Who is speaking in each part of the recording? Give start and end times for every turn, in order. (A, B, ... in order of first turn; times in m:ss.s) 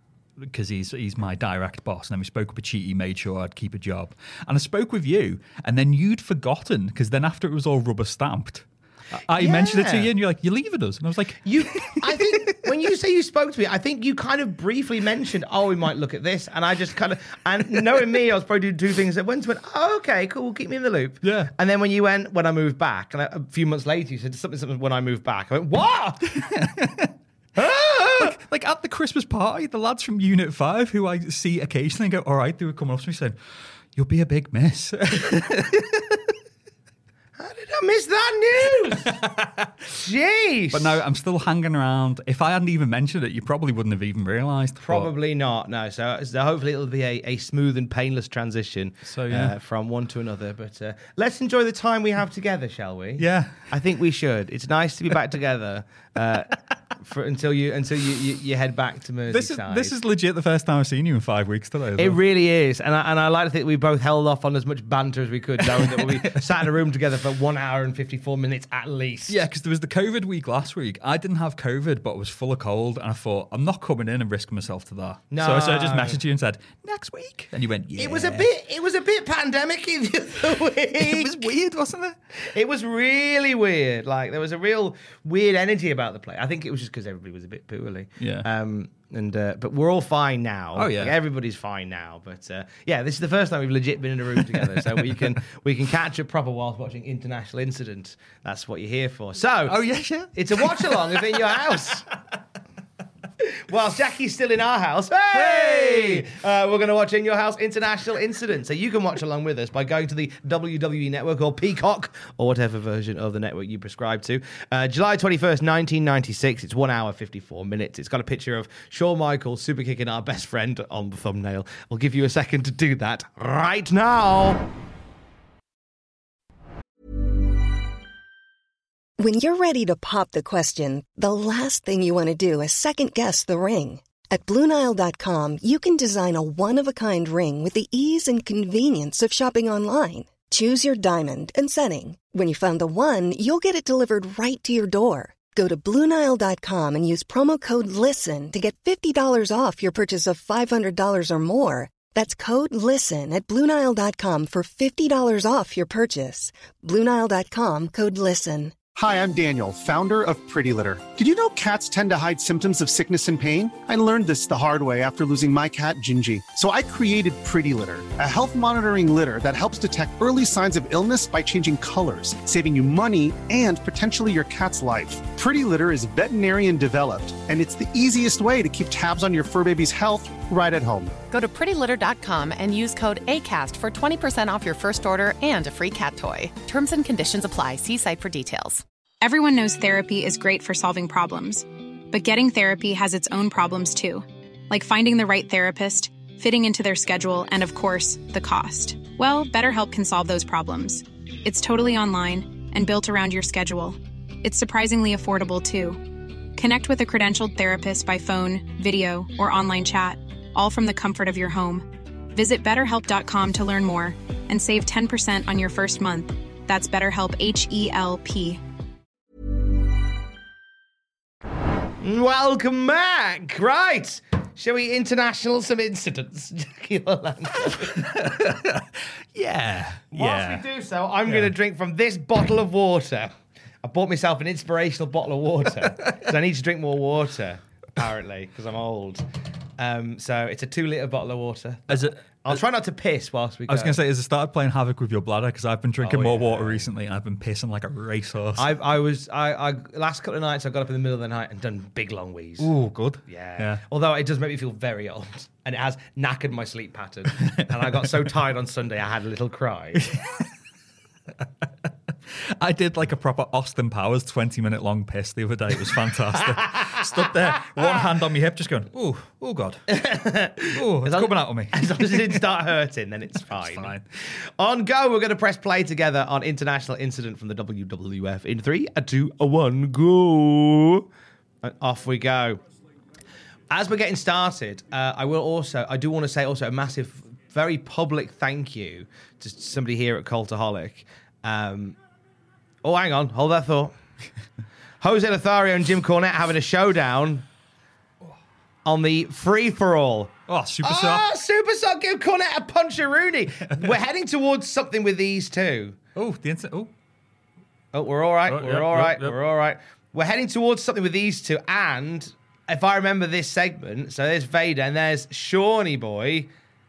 0:00.4-0:12.3 A
0:09.4-0:10.1 B
0:11.4-0:26.6 B
0:21.2-0:21.5 A
0:26.4-0:33.4 A
0:27.6-0:28.3 B
0:34.0-0:36.4 A
0:37.4-0:39.2 B
0:39.0-0:39.7 A
0:39.9-0:41.0 B
0:40.7-0:45.1 A
0:44.8-1:00.0 B
0:49.1-0:49.6 A
0:53.2-0:53.7 A
0:59.3-1:02.2 A
1:02.0-1:09.4 B
1:05.7-1:06.3 A
1:09.3-1:18.5 A
1:15.3-1:16.2 B
1:18.0-1:21.4 B
1:21.0-1:22.2 A
1:22.5-1:39.8 B
1:28.2-1:28.5 A
1:30.8-1:31.2 A
1:34.6-1:35.0 A
1:39.6-1:41.8 A
1:40.3-1:42.1 B
1:43.4-2:04.7 B
1:45.3-1:46.3 A
2:09.2-2:38.7 C
2:39.0-3:01.1 D
3:01.3-3:08.8 E
3:09.2-3:26.0 F
3:26.6-3:38.6 F
3:42.0-3:48.1 B
3:47.8-3:50.6 A
3:50.1-3:59.3 B
3:51.3-3:51.5 A
3:59.8-4:04.0 B
4:01.9-4:02.6 A
4:03.7-4:08.7 A
4:06.0-4:06.9 B
4:08.6-4:12.7 B
4:12.6-4:13.8 A
4:13.3-4:20.1 B
4:20.0-4:20.5 A
4:22.3-4:29.9 A
4:26.4-4:27.0 B
4:29.9-4:41.1 B
4:30.7-4:32.5 A
4:33.5-4:34.0 A
4:41.6-4:42.6 B
4:43.7-4:52.0 B
4:52.8-4:53.9 B
4:55.0-4:57.4 B
4:58.8-5:06.0 B
5:00.5-5:01.3 A
5:06.2-5:06.9 A
5:07.9-5:16.5 B
5:08.5-5:09.4 A